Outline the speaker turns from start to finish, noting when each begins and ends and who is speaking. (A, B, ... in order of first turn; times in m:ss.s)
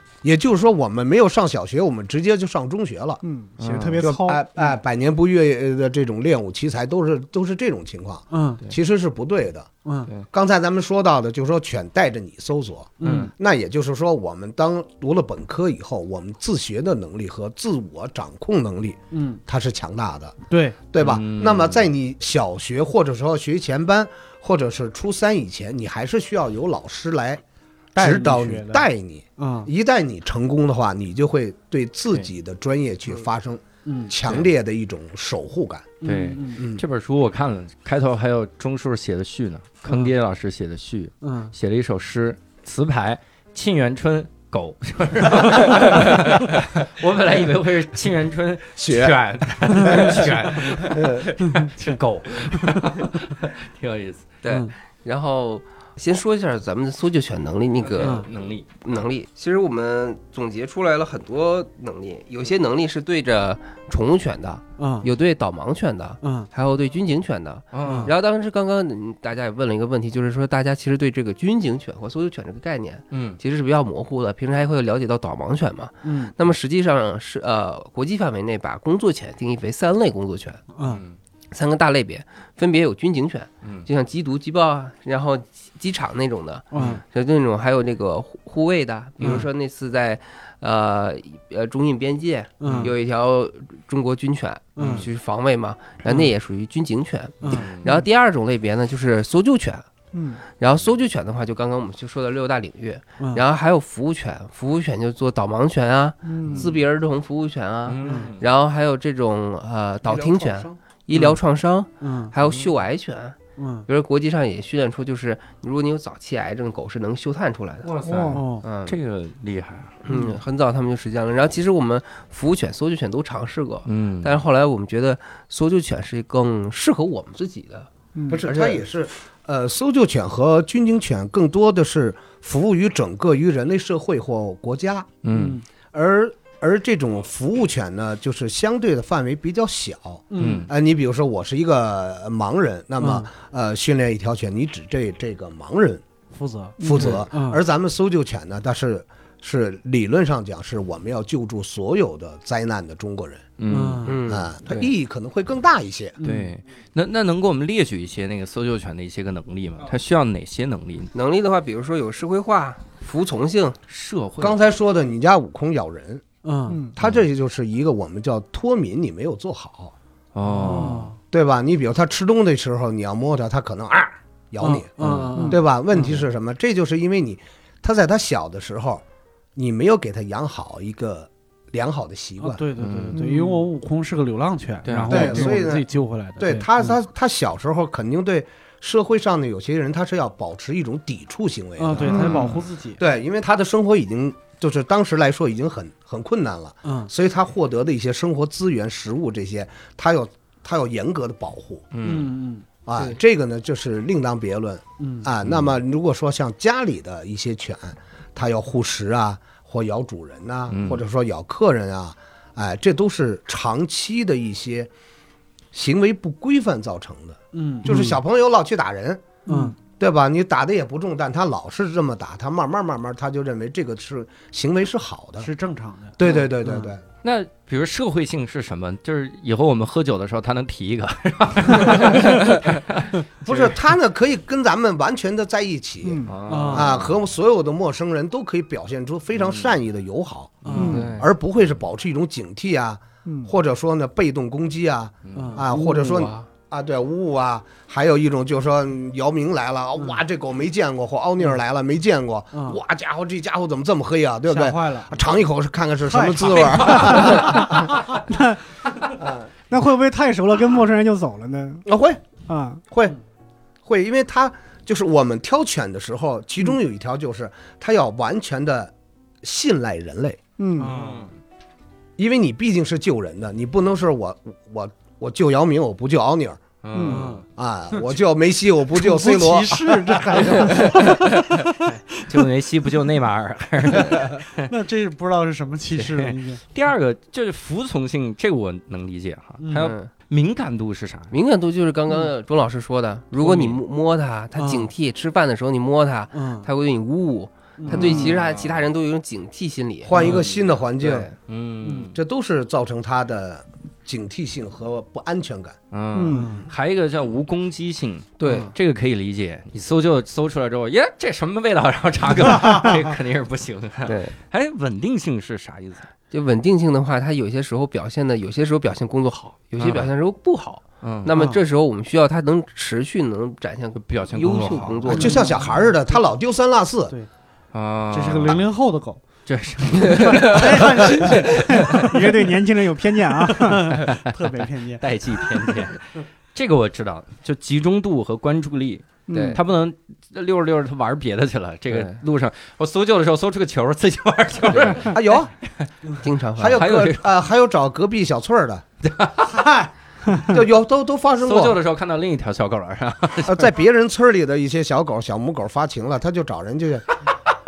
0:00.2-0:03.2 A
0:03.2-0:04.4 B
0:03.6-0:04.0 C
0:04.0-0:09.7 A
0:08.3-0:08.6 D
0:09.8-0:10.1 D
0:10.3-0:20.4 A
0:13.0-0:13.3 D
0:13.0-0:13.3 C
0:19.1-0:19.4 D
0:20.5-0:20.8 D
0:20.9-0:27.4 A
0:21.0-0:21.9 C
0:28.0-0:29.7 D
0:28.0-0:36.0 A
0:33.8-0:34.1 D
0:36.0-0:36.6 D
0:36.0-0:54.4 C
0:36.6-0:36.8 A
0:41.2-0:41.5 D
0:48.8-0:51.3 A
0:54.4-0:58.3 E
0:57.8-0:58.7 C
0:58.0-0:58.3 D
0:58.8-1:20.6 E
1:04.8-1:05.1 D
1:06.2-1:06.5 D
1:07.7-1:08.1 C
1:07.8-1:08.1 D
1:13.1-1:13.4 C
1:16.0-1:16.3 D
1:20.7-1:21.0 D
1:20.8-1:21.2 C
1:21.5-1:39.9 E
1:23.6-1:23.9 C
1:26.7-1:27.0 D
1:26.7-1:27.0 C
1:29.2-1:29.4 C
1:32.6-1:32.9 D
1:32.6-1:32.9 C
1:34.8-1:35.0 D
1:34.8-1:35.1 C
1:37.4-1:38.0 D
1:37.5-1:37.9 C
1:40.1-1:40.4 B
1:40.5-1:57.9 E
1:46.2-1:46.7 B
1:46.4-1:46.8 C
1:47.8-1:48.5 C
1:48.0-1:48.3 D
1:50.0-1:50.8 A
1:52.0-1:52.3 D
1:52.4-1:52.7 C
1:53.6-1:53.8 D
1:57.8-2:00.0 C
1:58.0-1:58.5 B
1:58.3-1:58.6 D
1:58.6-1:59.0 E
2:00.0-2:08.8 E
2:03.8-2:04.4 C
2:08.1-2:08.4 B
2:08.3-2:15.1 A
2:15.2-2:15.6 C
2:15.3-2:15.6 D
2:15.9-2:26.0 A
2:20.3-2:20.7 D
2:20.4-2:20.7 C
2:23.0-2:23.3 D
2:26.3-2:27.6 D
2:26.8-2:33.4 A
2:33.6-2:34.2 C
2:33.7-2:34.2 D
2:34.0-2:34.9 E
2:34.3-2:36.2 A
2:36.2-2:36.5 D
2:36.2-2:41.1 C
2:41.1-2:43.8 E
2:43.9-2:44.6 C
2:44.4-2:46.2 A
2:46.4-2:46.8 D
2:47.0-2:49.9 A
2:50.3-2:51.1 C
2:50.4-2:51.2 D
2:50.6-2:51.0 B
2:51.3-2:59.0 A
2:54.6-2:56.2 D
2:55.0-2:55.4 C
2:55.3-2:55.6 B
2:59.6-3:02.6 A
3:02.4-3:06.9 D
3:02.8-3:03.2 C
3:03.1-3:03.6 B
3:04.8-3:05.5 C
3:05.1-3:05.9 A
3:06.4-3:21.8 A
3:11.8-3:13.0 D
3:12.2-3:12.5 C
3:16.8-3:17.1 D
3:21.9-3:22.3 C
3:22.0-3:22.6 D
3:22.8-3:34.9 A
3:25.0-3:25.3 D
3:25.4-3:25.8 C
3:30.7-3:31.0 C
3:35.7-3:39.2 A
3:37.5-3:38.0 D
3:39.5-3:39.7 D
3:40.0-3:45.5 A
3:45.4-3:46.9 D
3:46.2-3:47.0 A
3:47.2-3:53.0 C
3:51.8-3:52.6 E
3:53.4-4:18.0 A
3:56.0-3:56.3 B
3:56.2-3:57.2 C
3:56.5-3:56.9 D
3:59.4-3:59.8 C
4:00.6-4:01.0 D
4:00.7-4:01.1 B
4:00.8-4:01.3 E
4:05.2-4:05.6 C
4:05.3-4:05.6 D
4:05.7-4:06.5 E
4:12.5-4:12.8 D
4:14.5-4:15.4 D
4:16.0-4:17.8 D
4:16.6-4:17.2 C
4:17.0-4:18.6 B
4:19.1-4:19.5 A
4:19.7-4:21.8 B
4:21.8-4:22.2 A
4:22.5-4:22.8 B
4:22.9-4:23.2 A
4:23.8-4:30.4 A
4:30.6-4:31.0 B
4:30.8-4:31.3 D
4:30.8-4:31.3 C
4:32.2-4:36.6 A
4:36.8-4:37.4 C
4:36.9-4:37.3 B
4:37.0-4:38.0 D
4:37.6-4:40.2 A
4:38.9-4:42.2 D
4:40.9-4:41.2 E
4:41.8-4:44.7 C
4:44.0-4:46.6 D
4:46.0-4:51.4 C
4:49.6-4:49.9 D
4:49.8-4:50.1 E
4:51.3-5:00.3 E
4:53.4-4:53.8 C
4:54.6-4:54.9 D
4:56.3-4:56.7 D
4:57.8-4:58.3 D
4:57.9-4:58.8 C
5:00.0-5:01.3 A
5:00.2-5:00.7 C
5:01.0-5:01.3 E
5:01.5-5:02.2 C
5:01.8-5:02.1 D
5:02.1-5:05.8 A
5:05.9-5:16.1 C
5:06.1-5:06.6 B
5:06.3-5:06.7 D
5:08.4-5:08.7 E
5:14.1-5:14.3 E
5:16.3-5:25.5 E
5:19.8-5:20.1 C
5:21.0-5:21.3 C
5:23.9-5:25.3 C
5:25.1-5:27.1 A
5:25.1-5:26.2 D
5:27.7-5:28.6 C
5:28.1-5:29.2 D
5:29.4-5:31.9 C
5:30.1-5:30.8 E
5:30.3-5:32.2 D
5:31.8-5:34.0 B
5:33.5-5:35.0 D
5:35.0-5:45.2 C
5:39.3-5:39.6 B
5:39.3-5:39.6 E
5:41.9-5:42.2 E
5:44.7-5:45.0 E
5:45.0-5:45.5 A
5:46.2-5:46.8 E
5:46.6-5:48.8 A
5:46.7-5:47.3 C
5:49.0-5:49.7 C
5:49.4-5:49.9 D
5:50.4-5:51.8 A
5:51.4-5:53.7 C
5:53.4-5:57.0 A